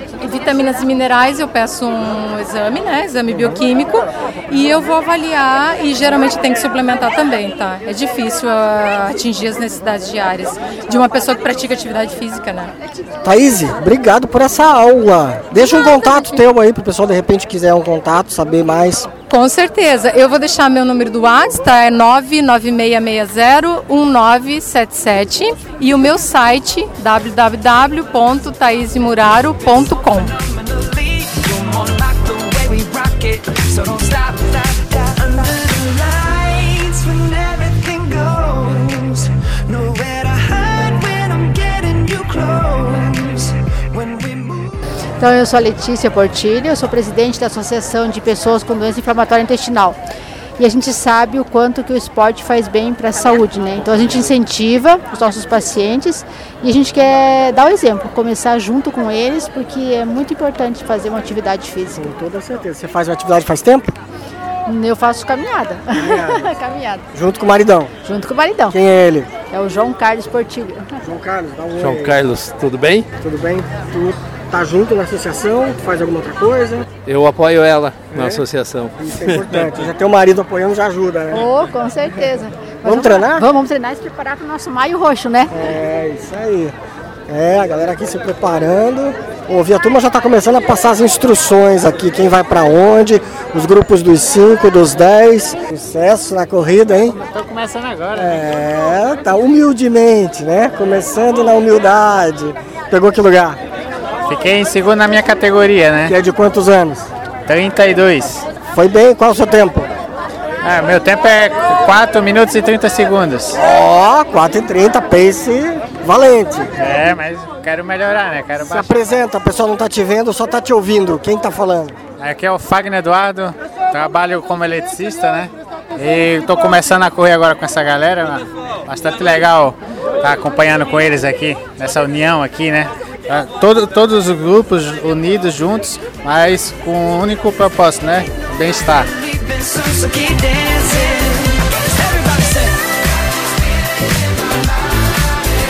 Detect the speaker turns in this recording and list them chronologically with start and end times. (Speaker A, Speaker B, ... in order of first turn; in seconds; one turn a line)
Speaker A: 0.2-12.7
Speaker B: 3.3-3.6
Speaker B: 13.2-19.1
Speaker A: 15.5-16.4
Speaker A: 19.3-30.3
Speaker C: 29.7-44.8
Speaker D: 45.2-50.0
Speaker D: 50.6-62.1
Speaker B: 61.9-63.9
Speaker D: 64.7-67.0
Speaker B: 65.9-66.5
Speaker B: 67.1-67.9
Speaker D: 68.0-68.8
Speaker B: 68.7-69.3
Speaker D: 69.5-70.9
Speaker B: 71.0-72.2
Speaker E: 71.8-73.1
Speaker B: 73.2-76.9
Speaker E: 77.0-79.8
Speaker B: 78.1-78.4
Speaker B: 79.0-81.5
Speaker D: 81.3-85.5
Speaker B: 82.8-83.5
Speaker B: 85.5-86.8
Speaker B: 87.3-97.2
Speaker F: 97.2-98.3
Speaker B: 98.1-103.6
Speaker F: 104.3-106.1
Speaker B: 106.1-107.1
Speaker F: 107.5-108.5
Speaker B: 108.7-109.9
Speaker F: 110.6-113.6
Speaker B: 113.5-116.7
Speaker F: 116.8-119.0
Speaker B: 118.6-122.0
Speaker F: 122.2-139.1
Speaker C: 139.1-142.9
Speaker C: 144.0-145.2